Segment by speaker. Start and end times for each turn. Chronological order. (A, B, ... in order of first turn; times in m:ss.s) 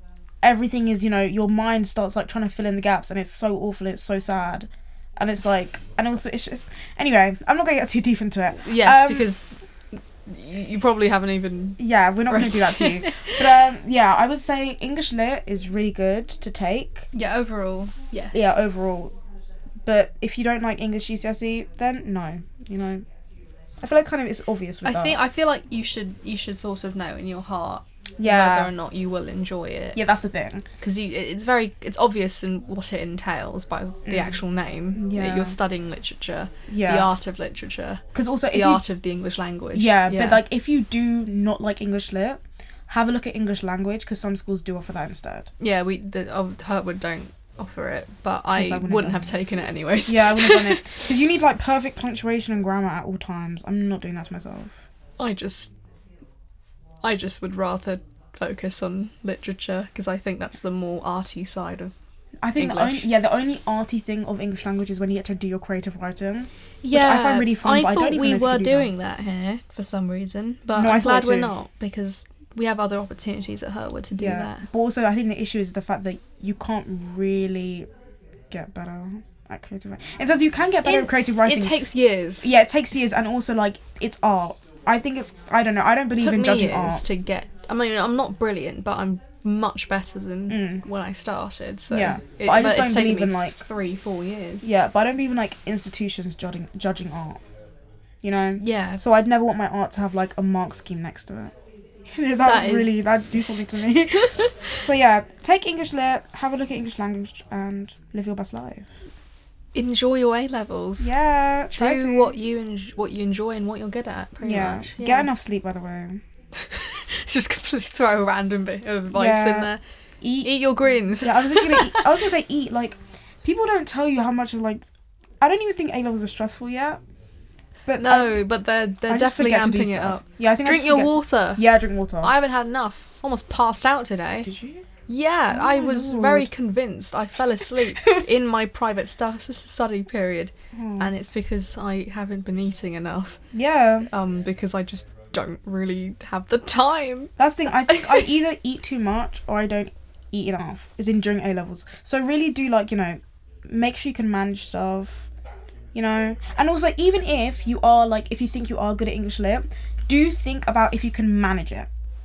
0:00.4-0:09.3 A
0:08.6-0:13.4 B
0:11.8-0:17.1 A
0:17.1-0:18.6 B
0:18.3-0:19.1 A
0:19.8-0:23.0 A
0:23.8-0:25.2 A
0:24.8-0:30.0 B
0:28.2-0:28.7 A
0:30.0-0:30.6 A
0:30.8-0:40.4 B
0:34.1-0:34.4 A
0:34.9-0:35.6 A
0:36.7-0:37.1 A
0:38.2-0:38.8 A
0:39.7-0:45.5 A
0:45.6-0:51.1 B
0:48.5-0:49.4 A
0:50.1-0:54.8 A
0:55.2-0:55.7 B
0:57.0-1:01.9 B
1:02.4-1:08.9 A
1:02.5-1:03.1 B
1:06.8-1:14.7 B
1:10.7-1:11.5 A
1:14.2-1:17.9 A
1:18.5-1:21.8 A
1:20.8-1:22.6 B
1:22.4-1:27.0 A
1:26.2-1:34.7 B
1:30.5-1:30.8 A
1:31.9-1:33.6 A
1:34.6-1:37.4 A
1:38.2-1:41.5 A
1:38.6-1:39.0 B
1:42.1-1:48.9 A
1:42.4-1:44.7 B
1:49.7-1:51.2 B
1:51.0-1:52.4 A
1:51.7-1:55.3 B
1:54.4-1:56.2 A
1:56.6-1:59.8 B
1:59.1-2:04.8 A
2:00.4-2:02.1 B
2:05.4-2:07.0 A
2:07.9-2:08.4 A
2:08.0-2:14.5 B
2:09.1-2:12.3 A
2:14.4-2:14.8 A
2:15.1-2:23.4 B
2:15.5-2:16.5 A
2:20.7-2:21.1 A
2:23.5-2:24.1 A
2:24.0-2:28.3 B
2:27.4-2:35.3 A
2:35.9-2:41.9 A